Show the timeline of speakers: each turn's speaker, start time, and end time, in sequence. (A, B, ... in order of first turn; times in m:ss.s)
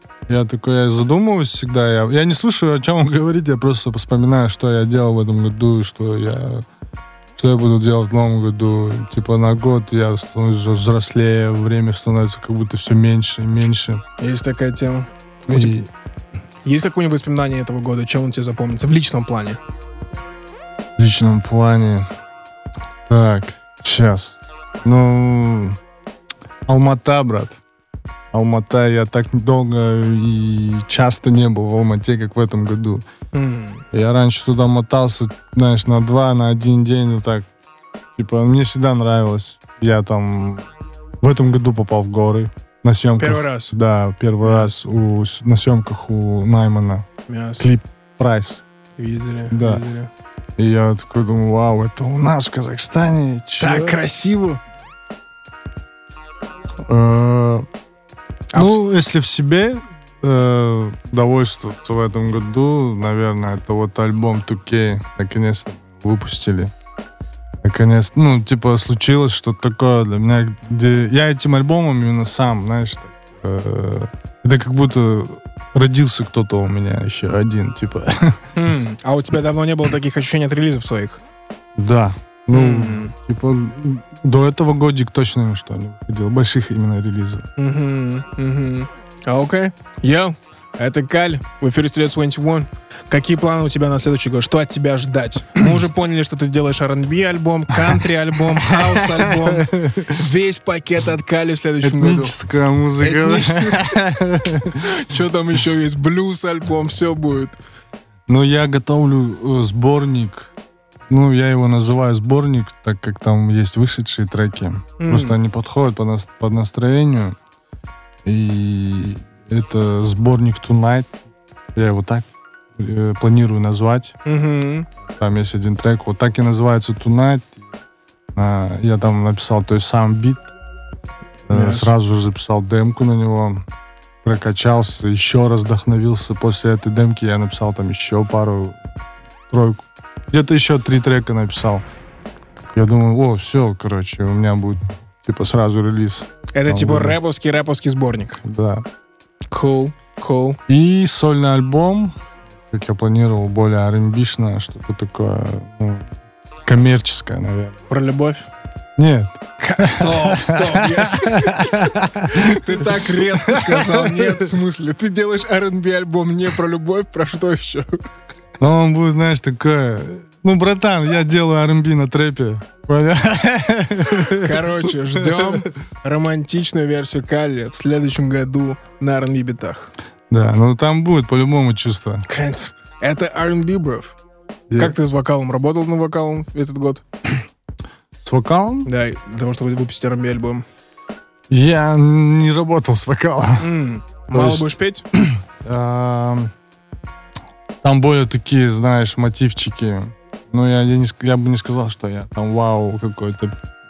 0:00.3-0:06.7 A
0:07.4-0:14.0 A
0:14.2-0:15.7 B
0:15.5-0:15.9 A
0:16.6-0:19.6 B
0:21.0-0:22.1 A
0:23.1-0:25.8 A
0:26.7-0:27.6 A
0:28.3-0:33.1 A
0:33.3-0:33.8 B
0:33.9-0:37.5 A
0:38.2-0:40.7 A
0:41.2-0:47.1 A
0:43.2-0:43.8 B
0:44.4-0:44.7 B
0:47.3-0:47.7 B
0:47.6-0:48.6 A
0:49.0-0:50.1 B
0:49.5-0:49.8 A
0:50.6-0:54.0 A
0:53.6-0:54.6 B
0:56.9-0:57.7 A
0:58.5-0:58.8 B
0:58.5-1:06.7 A
1:07.6-1:18.4 A
1:18.6-1:21.2 B
1:21.8-1:27.5 A
1:22.5-1:23.1 B
1:27.6-1:42.4 B
1:38.5-1:40.2 A
1:41.8-1:44.9 A
1:43.0-1:44.0 B
1:44.8-1:47.6 B
1:48.3-1:50.5 A
1:51.1-1:57.4 A
1:55.0-1:55.4 B
1:58.2-2:01.2 A
2:01.8-2:04.2 A
2:04.2-2:04.9 B
2:05.1-2:07.6 A
2:08.4-2:10.5 A
2:11.5-2:13.6 A
2:11.5-2:11.9 B
2:14.2-2:18.8 A
2:19.5-2:21.8 A
2:22.7-2:27.2 A
2:26.5-2:28.4 B
2:28.4-2:28.8 A
2:29.5-2:30.6 B
2:30.7-2:36.1 A
2:36.6-2:37.8 A
2:37.9-2:38.5 B
2:39.0-2:44.5 A
2:39.6-2:48.0 B
2:48.6-2:55.6 A
2:54.2-2:59.9 B
3:00.3-3:02.3 A
3:02.3-3:04.2 B
3:04.7-3:05.0 A
3:04.8-3:07.0 B
3:08.2-3:08.9 A
3:08.9-3:10.6 B
3:11.5-3:13.7 A
3:13.6-3:15.0 B
3:14.3-3:16.5 A
3:17.8-3:23.6 A